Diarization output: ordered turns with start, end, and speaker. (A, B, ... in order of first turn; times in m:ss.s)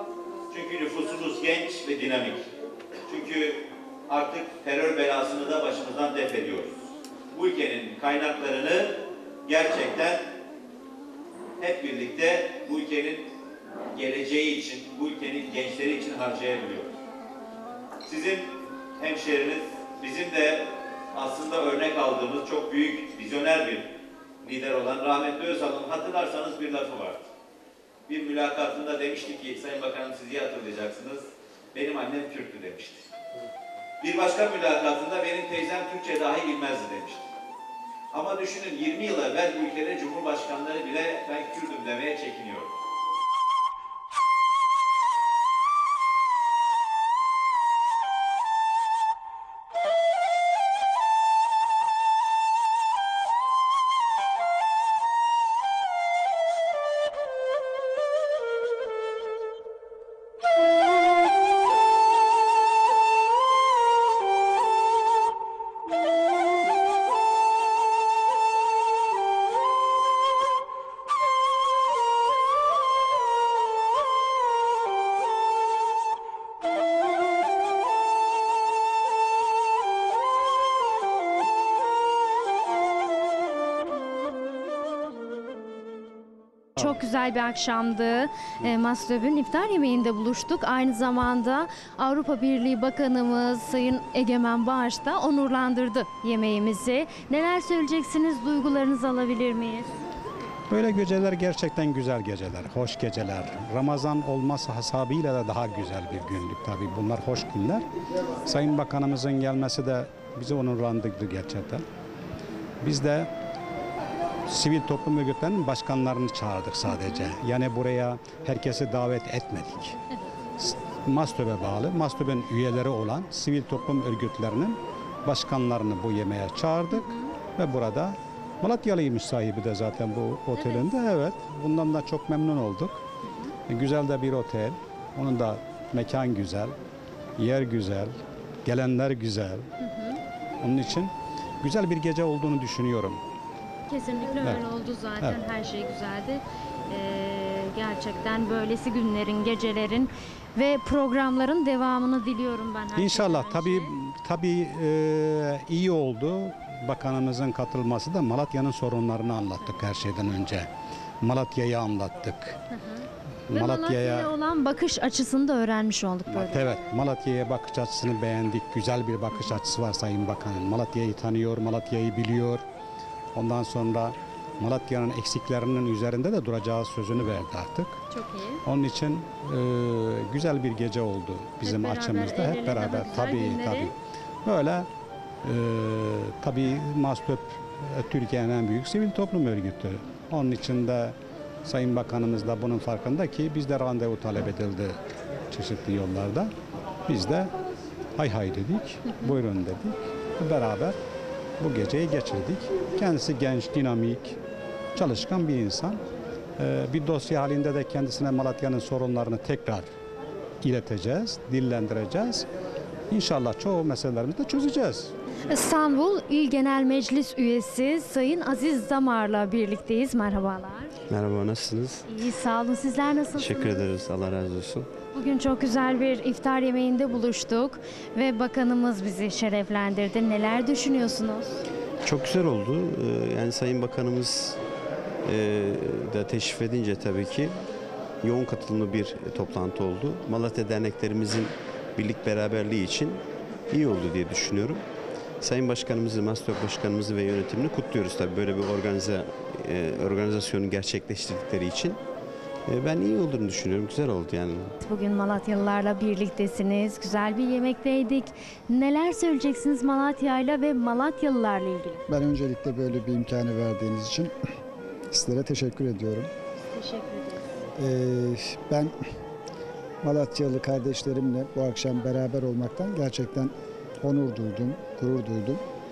0:00.5-0:02.5 A
0:03.1-0:10.2 A
0:11.6-0:13.3 A
0:14.0-0:16.9 A
0:18.0-0:27.3 A
0:28.1-0:33.1 A
0:34.0-0:37.3 A
0:38.1-0:42.7 A
1:26.8-1:39.9 B
1:40.7-1:47.8 C
1:48.5-1:51.8 C
1:52.8-1:53.3 C
1:54.5-2:00.0 C
1:56.9-1:57.3 B
2:00.6-2:12.9 C
2:06.9-2:07.3 B
2:10.6-2:10.9 B
2:13.7-2:16.7 C
2:17.4-2:18.1 C
2:18.6-2:19.6 C
2:19.8-2:20.2 B
2:20.6-2:23.2 C
2:23.9-2:33.9 B
2:33.0-2:40.7 C
2:41.2-2:42.6 C
2:42.7-2:46.8 B
2:43.5-2:44.3 C
2:46.3-2:52.6 C
2:49.3-2:49.6 B
2:53.4-2:58.0 C
2:58.1-2:58.6 B
2:58.7-3:03.9 C
3:01.6-3:03.9 B
3:04.4-3:04.9 C
3:05.4-3:15.0 C
3:15.5-3:16.5 C
3:17.1-3:17.5 C
3:18.2-3:21.0 C
3:19.1-3:19.4 B
3:21.6-3:24.4 C
3:25.0-3:26.0 C
3:26.6-3:29.9 C
3:30.6-3:32.5 C
3:33.1-3:35.1 C
3:35.5-3:40.9 B
3:41.1-3:42.0 D
3:42.1-3:43.9 B
3:43.4-3:44.9 D
3:45.1-3:51.6 B
3:52.0-3:54.6 D
3:55.2-3:57.6 D
3:58.2-4:04.9 D
4:05.4-4:12.0 D
4:12.7-4:14.8 D
4:14.8-4:22.0 B
4:22.1-4:24.3 E
4:25.1-4:26.3 E
4:26.7-4:27.4 B
4:27.8-4:28.9 E
4:30.0-4:35.6 E